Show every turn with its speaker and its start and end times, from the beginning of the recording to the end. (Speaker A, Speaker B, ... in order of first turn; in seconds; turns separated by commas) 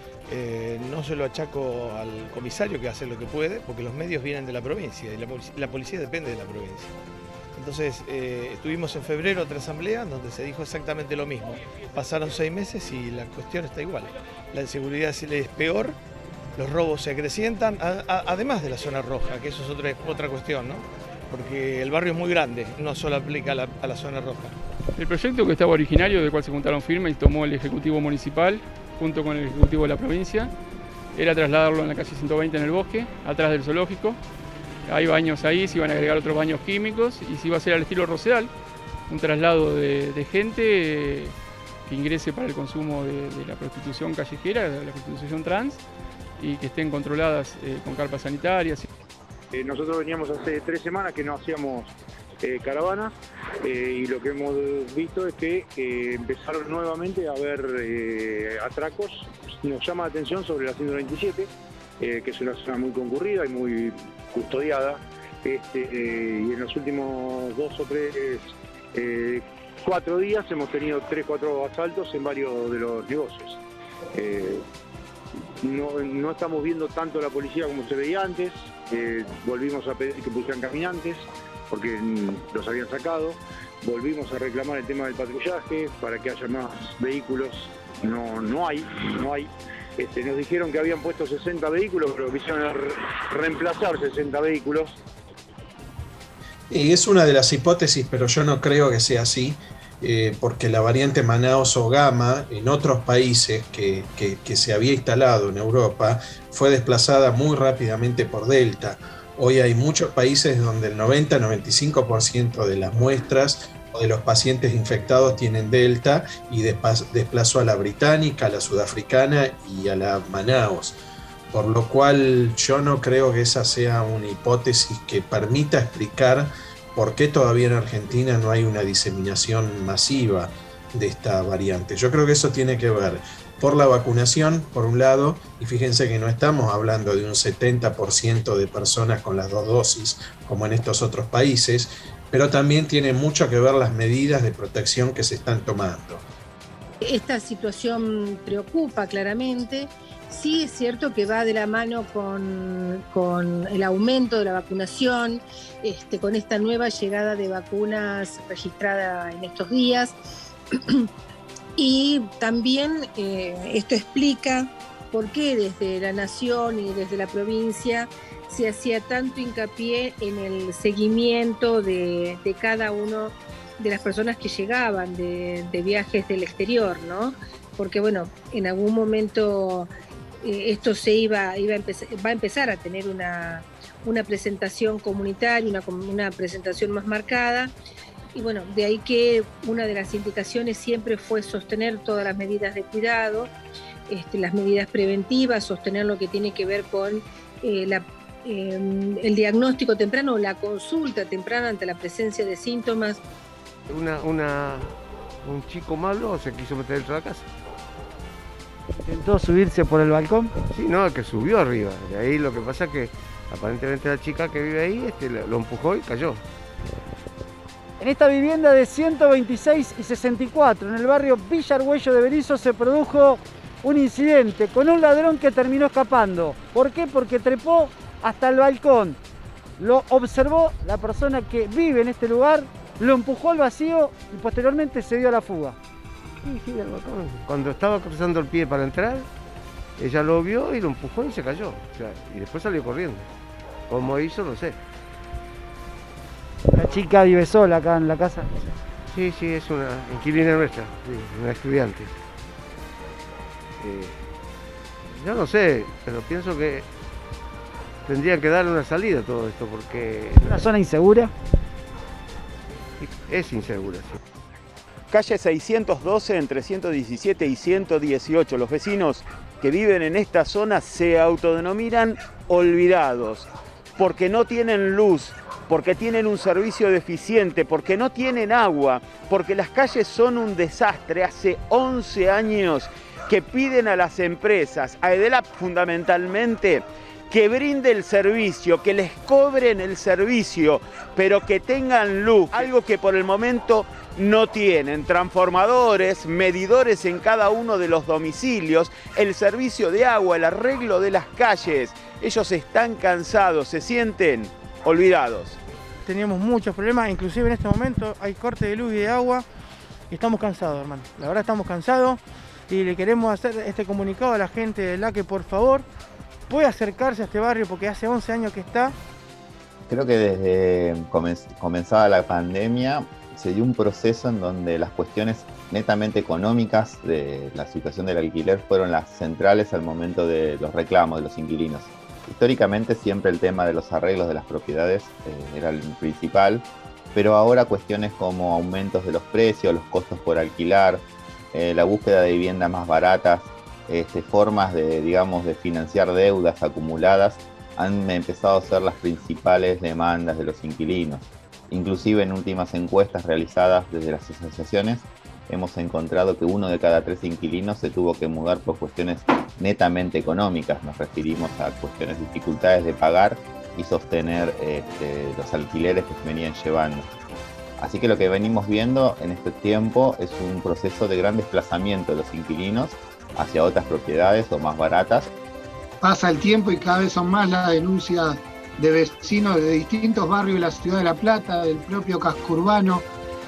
Speaker A: 0.3-6.9, Speaker A: 7.6-16.0, Speaker A: 16.6-24.5, Speaker B: 25.0-30.5, Speaker B: 31.1-34.2, Speaker B: 34.9-38.5, Speaker B: 39.1-41.4, Speaker B: 41.9-45.8, Speaker B: 46.4-48.9, Speaker C: 49.5-73.6, Speaker C: 74.1-74.7, Speaker C: 75.6-95.0, Speaker D: 96.7-121.0, Speaker D: 121.5-146.2, Speaker E: 147.0-160.2, Speaker E: 160.7-161.1, Speaker E: 161.8-179.9, Speaker E: 180.4-187.7, Speaker E: 188.3-193.5, Speaker E: 194.1-203.2, Speaker F: 203.9-207.5, Speaker G: 209.0-210.4, Speaker F: 210.7-216.4, Speaker G: 218.0-226.7, Speaker B: 219.6-221.9, Speaker B: 223.9-224.2, Speaker B: 224.9-225.1, Speaker B: 226.7-227.8, Speaker G: 227.6-229.2, Speaker B: 228.4-228.8, Speaker G: 229.8-232.6, Speaker B: 230.7-233.0, Speaker G: 233.1-235.8, Speaker B: 234.8-235.4, Speaker F: 236.4-239.3, Speaker F: 240.0-243.3, Speaker F: 243.9-244.8, Speaker G: 246.8-248.4, Speaker F: 249.1-252.2, Speaker F: 253.8-254.2, Speaker F: 255.1-256.9, Speaker F: 258.1-260.6, Speaker B: 260.6-261.3, Speaker G: 260.6-261.3, Speaker F: 263.0-264.2, Speaker H: 265.1-305.6, Speaker I: 306.1-309.4, Speaker I: 310.1-312.2, Speaker I: 312.7-315.9, Speaker I: 316.5-318.9, Speaker J: 319.9-367.1, Speaker J: 367.8-375.3, Speaker K: 376.0-383.1